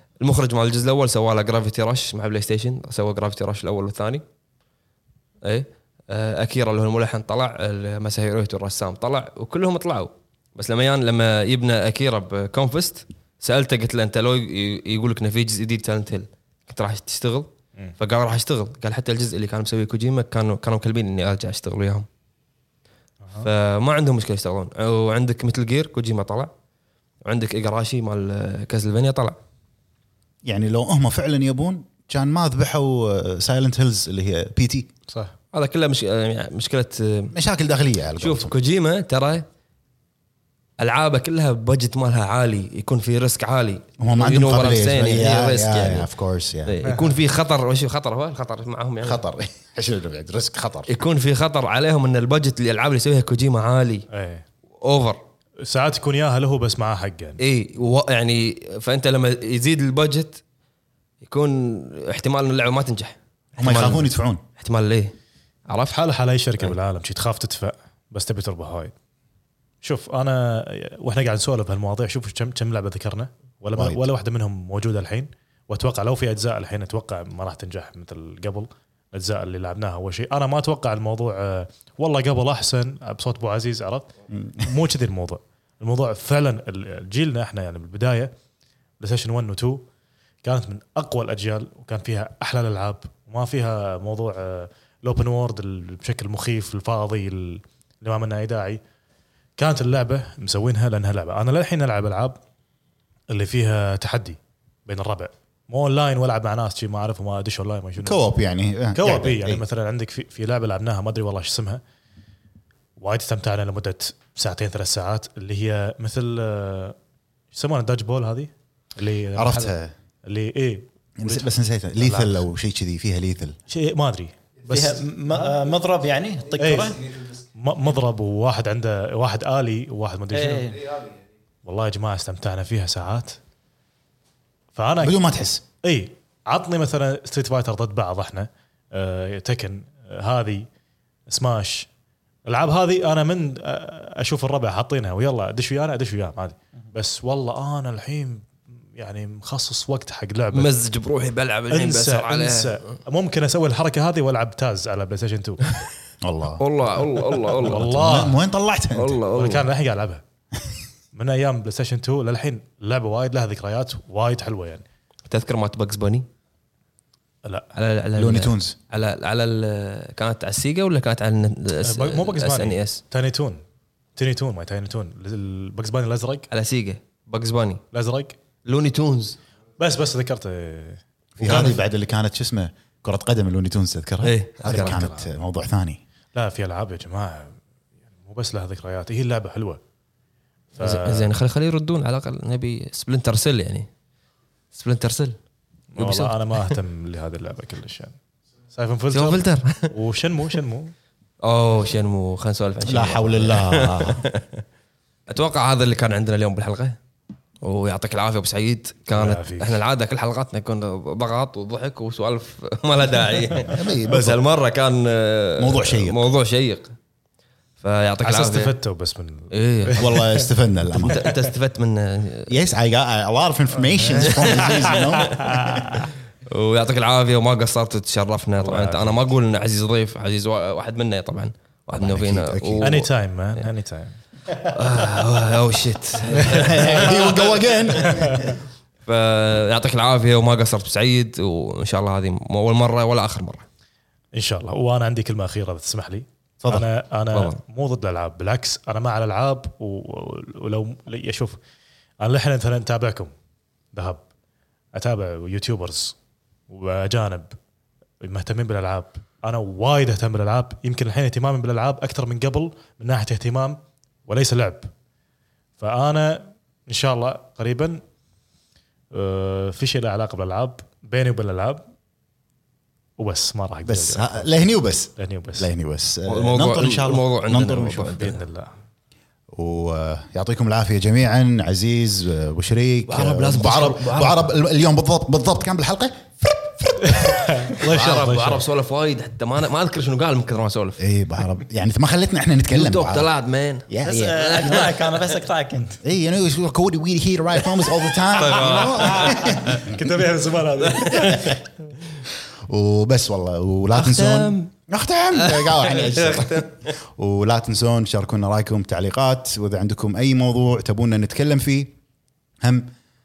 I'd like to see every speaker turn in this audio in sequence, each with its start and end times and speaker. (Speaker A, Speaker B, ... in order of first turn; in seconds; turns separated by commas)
Speaker A: 0.2-4.2, Speaker A: 5.4-22.1, Speaker A: 23.4-26.5, Speaker A: 27.2-29.4, Speaker B: 30.4-34.9, Speaker A: 35.5-37.3, Speaker B: 37.3-38.5, Speaker A: 38.2-39.4, Speaker A: 40.8-46.1, Speaker B: 44.0-46.8, Speaker A: 46.6-49.2, Speaker C: 46.8-47.1, Speaker B: 49.0-50.9, Speaker A: 50.9-54.0, Speaker C: 54.1-54.4, Speaker A: 54.8-55.2, Speaker C: 55.6-57.4, Speaker A: 57.4-60.4, Speaker A: 61.2-65.1, Speaker B: 63.6-64.4, Speaker C: 65.9-68.9, Speaker C: 69.8-88.3, Speaker B: 73.7-74.0, Speaker B: 84.3-84.7, Speaker C: 89.0-89.8, Speaker C: 90.4-98.8, Speaker C: 99.6-102.4, Speaker C: 103.3-108.2, Speaker B: 108.0-109.6, Speaker C: 108.9-111.8, Speaker C: 113.0-117.0, Speaker C: 117.5-119.7, Speaker B: 119.3-119.9, Speaker C: 120.2-121.4, Speaker B: 121.2-123.5, Speaker C: 122.0-122.3, Speaker C: 123.7-125.0, Speaker D: 124.7-127.0, Speaker C: 126.6-127.0, Speaker C: 127.5-130.8, Speaker D: 130.3-130.8, Speaker C: 131.6-133.4, Speaker C: 134.7-135.2, Speaker B: 135.0-135.6, Speaker C: 135.8-140.7, Speaker C: 141.3-141.9, Speaker C: 142.5-150.7, Speaker A: 150.5-152.9, Speaker C: 151.7-155.7, Speaker B: 156.2-156.6, Speaker A: 156.6-157.9, Speaker C: 157.6-158.4, Speaker B: 157.6-159.2, Speaker A: 158.9-159.7, Speaker C: 159.3-160.2, Speaker C: 161.1-164.8, Speaker A: 165.3-166.2, Speaker C: 167.4-167.7, Speaker A: 167.7-173.0, Speaker B: 168.2-168.8, Speaker C: 171.8-173.6, Speaker C: 174.2-176.5, Speaker A: 176.5-177.8, Speaker C: 177.9-178.4, Speaker A: 178.6-179.4, Speaker C: 179.8-181.8, Speaker B: 181.4-186.0, Speaker A: 184.2-185.0, Speaker C: 184.7-185.3, Speaker C: 186.3-187.6, Speaker C: 188.2-189.8, Speaker C: 190.8-191.3, Speaker A: 190.8-193.9, Speaker A: 194.7-195.4, Speaker C: 195.9-198.2, Speaker A: 196.0-196.8, Speaker C: 198.7-200.9, Speaker A: 199.1-199.9, Speaker A: 201.4-204.6, Speaker B: 202.8-204.2, Speaker A: 205.3-207.0, Speaker A: 207.6-216.9, Speaker C: 209.1-209.8, Speaker B: 213.6-214.4, Speaker B: 215.6-216.3, Speaker A: 217.8-218.7, Speaker C: 218.2-220.5, Speaker A: 219.5-220.2, Speaker B: 220.0-221.3, Speaker A: 220.9-222.5, Speaker B: 222.5-225.6, Speaker C: 223.8-226.1, Speaker A: 224.2-225.0, Speaker A: 225.9-233.0, Speaker C: 228.6-229.3, Speaker B: 232.0-233.1, Speaker C: 232.8-234.2, Speaker A: 234.6-238.4, Speaker B: 236.3-238.5, Speaker C: 236.5-236.8, Speaker C: 238.0-238.5, Speaker A: 239.1-243.6, Speaker C: 244.3-251.6, Speaker B: 246.6-246.9, Speaker A: 247.3-247.6, Speaker C: 252.2-253.3, Speaker C: 253.9-254.2, Speaker C: 254.9-256.1, Speaker C: 256.7-257.6, Speaker C: 258.2-264.9, Speaker C: 265.8-268.0, Speaker C: 269.1-271.8, Speaker C: 273.2-274.5, Speaker B: 273.8-278.2, Speaker C: 275.2-275.7, Speaker A: 276.2-278.4, Speaker C: 278.1-278.7, Speaker B: 279.5-287.2, Speaker A: 283.1-284.5, Speaker C: 287.0-288.6, Speaker A: 287.6-291.0, Speaker B: 291.0-293.3, Speaker A: 292.7-295.2, Speaker B: 293.9-294.8, Speaker D: 294.0-296.0, Speaker B: 296.0-300.0, Speaker A: 298.2-299.8, Speaker C: 299.2-301.6, Speaker A: 300.9-301.4, Speaker B: 301.1-301.6, Speaker B: 302.6-311.9, Speaker A: 303.9-304.7, Speaker A: 305.3-306.9, Speaker B: 312.6-312.9